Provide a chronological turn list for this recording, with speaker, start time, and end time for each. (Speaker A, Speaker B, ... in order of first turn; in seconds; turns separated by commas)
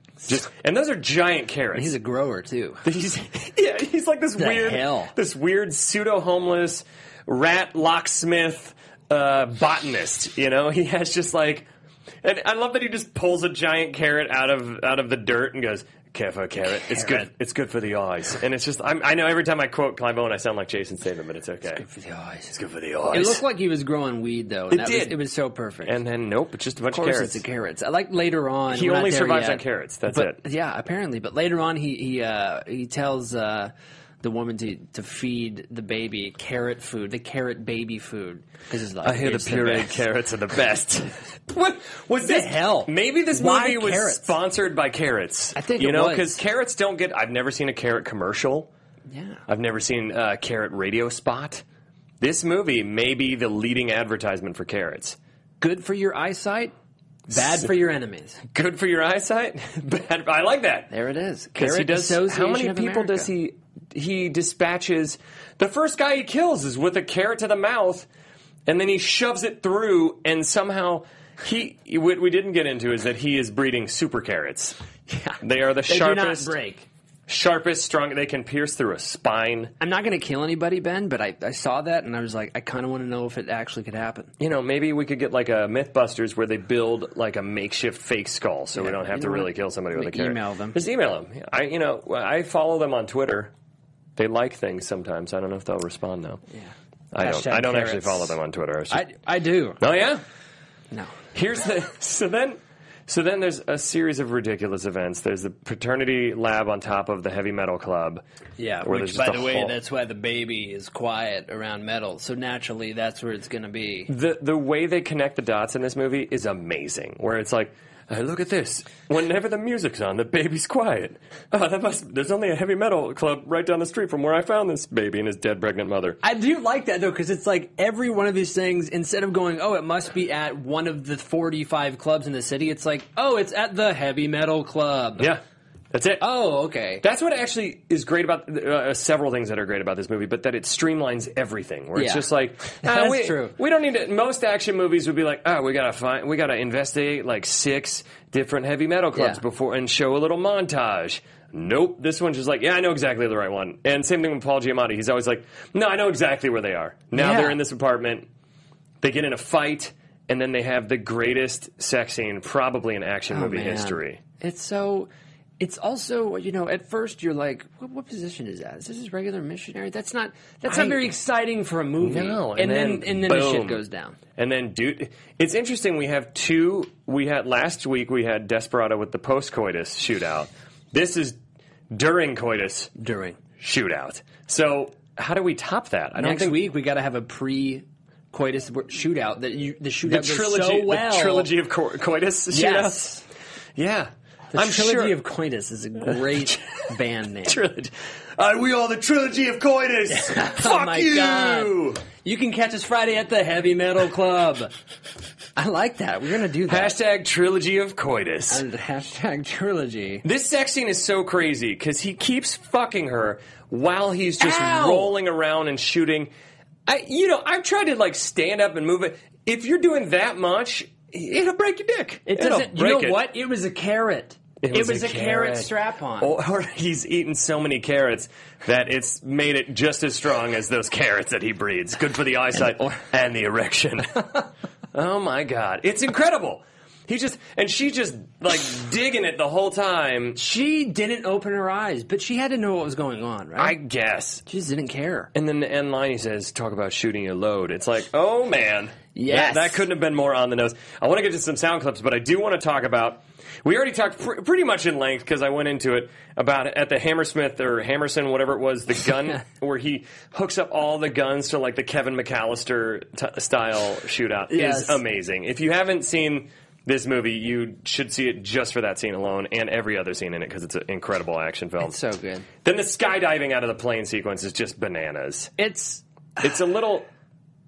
Speaker A: 0.2-2.0, Speaker B: 1.7-2.8, Speaker A: 2.8-11.7, Speaker B: 4.4-5.1, Speaker A: 12.2-21.8, Speaker B: 16.8-17.3, Speaker B: 21.7-22.5, Speaker A: 22.5-23.4, Speaker B: 23.1-26.0, Speaker A: 24.7-25.2, Speaker A: 25.8-27.4, Speaker B: 26.9-40.0, Speaker A: 28.7-30.4, Speaker A: 39.0-48.7, Speaker B: 42.2-44.3, Speaker B: 45.5-46.4, Speaker B: 49.1-49.4, Speaker A: 49.5-51.6, Speaker A: 52.2-55.2, Speaker B: 55.6-56.7, Speaker B: 57.3-58.4, Speaker A: 57.3-57.7, Speaker A: 58.4-60.9, Speaker B: 60.9-63.3, Speaker A: 61.5-68.1, Speaker A: 68.7-74.8, Speaker B: 75.1-76.9, Speaker A: 75.4-76.5, Speaker A: 77.3-79.7, Speaker B: 79.8-84.3, Speaker A: 84.4-93.5, Speaker B: 88.7-90.8, Speaker A: 94.2-96.4, Speaker B: 96.5-98.4, Speaker A: 97.1-99.0, Speaker B: 98.9-99.8, Speaker A: 99.8-100.2, Speaker A: 101.3-108.2, Speaker B: 108.6-114.1, Speaker A: 108.8-109.8, Speaker A: 114.1-126.2, Speaker B: 126.2-135.3, Speaker A: 135.2-136.3, Speaker B: 136.2-137.0, Speaker A: 137.0-158.3, Speaker B: 141.9-143.6, Speaker B: 149.1-149.4, Speaker B: 157.1-157.6, Speaker A: 159.0-164.2, Speaker B: 163.3-174.2, Speaker A: 170.6-171.1, Speaker A: 172.0-173.8, Speaker A: 174.4-181.4, Speaker A: 181.9-182.9, Speaker B: 183.0-183.4, Speaker A: 183.6-186.6, Speaker B: 186.2-191.5, Speaker A: 190.0-193.2, Speaker B: 192.5-193.2, Speaker A: 193.7-195.2, Speaker B: 194.5-197.6, Speaker A: 196.0-196.7, Speaker A: 197.4-202.0, Speaker B: 200.1-204.7, Speaker B: 205.6-206.9, Speaker A: 206.7-208.6, Speaker B: 208.5-210.2, Speaker A: 210.2-216.3, Speaker B: 214.4-215.1, Speaker A: 216.8-223.2, Speaker B: 222.3-226.3, Speaker A: 224.6-234.3, Speaker A: 234.9-240.4, Speaker B: 240.3-243.8, Speaker A: 243.6-244.4, Speaker B: 244.5-245.3, Speaker A: 245.3-271.9, Speaker B: 249.1-249.9, Speaker B: 264.5-265.0, Speaker B: 271.8-272.5, Speaker A: 272.6-275.5, Speaker B: 275.6-276.0, Speaker A: 276.4-277.1